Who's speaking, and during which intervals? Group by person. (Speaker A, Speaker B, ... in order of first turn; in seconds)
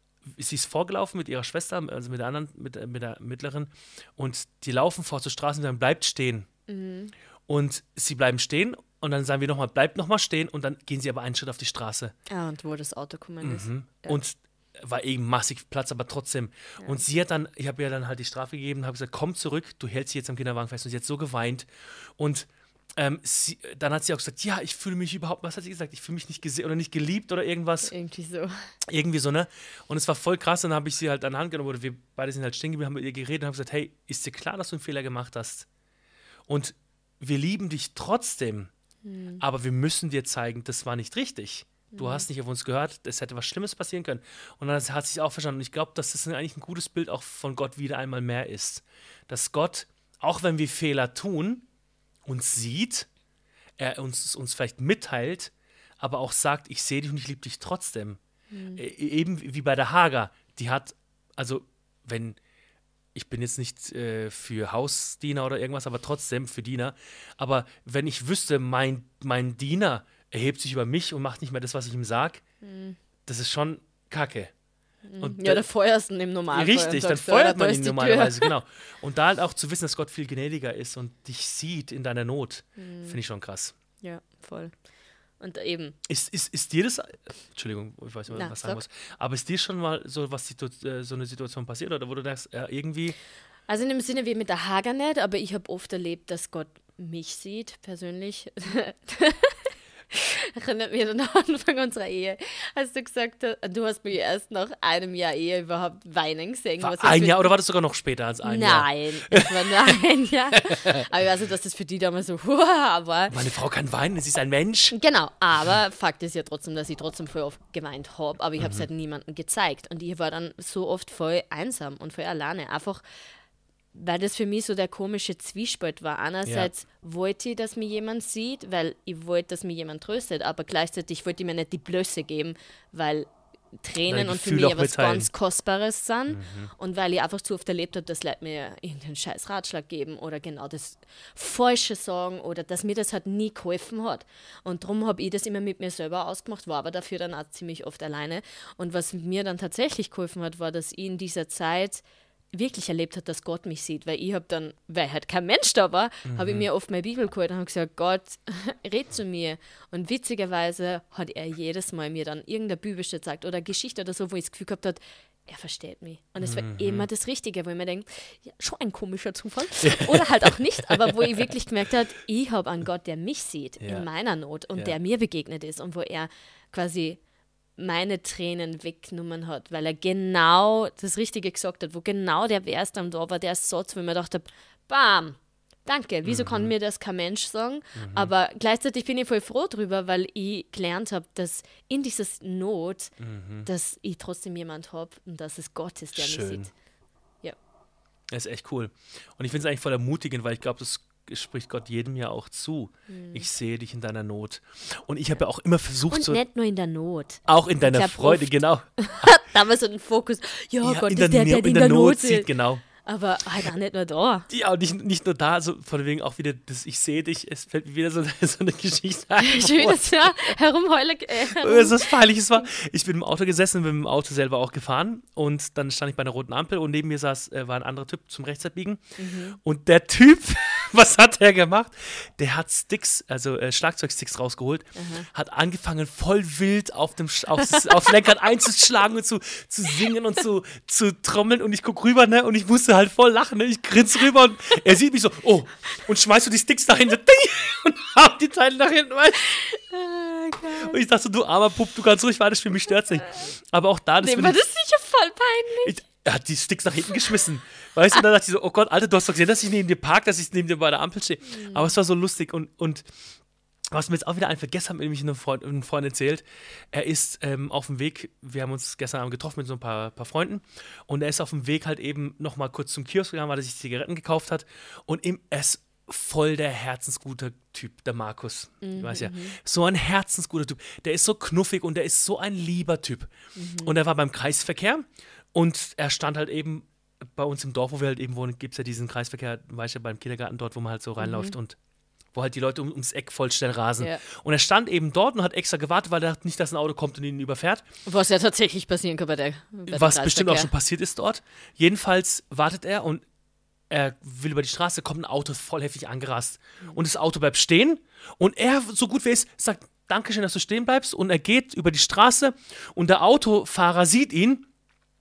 Speaker A: 0.3-6.5, 7.5-12.1, 13.4-21.7, 22.2-27.9, 28.9-35.7, 36.5-38.7, 39.4-51.6, 52.2-53.1, 53.8-58.2, 58.8-62.4, 63.1-72.4, 73.2-74.5, 75.2-75.6, 76.5-83.7, 86.1-93.2, 106.8-110.0, 110.6-111.0, 113.3-114.9, 118.6-118.9, 126.4-126.7, 134.1-135.3, 136.3-136.7, 156.2-156.7, 166.4-167.1, 169.8-171.2, 173.8-174.1, 186.2-186.7, 187.9-188.3, 193.2-193.7, 196.1-196.7, 198.3-206.4, 207.5-209.3, 210.8-212.8, 214.5-220.3, 221.5-229.0, 229.6-249.6, 250.8-254.6, 255.8-263.0, 263.9-291.8, 292.3-297.9, 299.9-303.2, 303.9-314.6
Speaker B: 6.7-7.1, 12.3-14.2, 27.9-28.5, 39.0-39.4, 41.9-42.2, 58.5-58.8, 72.6-73.0, 75.1-78.5, 82.8-83.2, 84.0-84.8, 85.4-86.0, 88.3-88.8, 93.7-107.5, 108.4-113.4, 114.9-123.0, 123.9-177.2, 177.8-193.1, 193.6-196.7, 203.1-203.4, 206.1-214.5, 219.4-222.2, 229.2-229.6, 234.9-235.3, 237.7-238.0, 249.5-251.0, 254.2-256.0, 261.5-261.9, 278.8-279.6, 283.6-283.9, 291.2-291.5, 298.1-300.7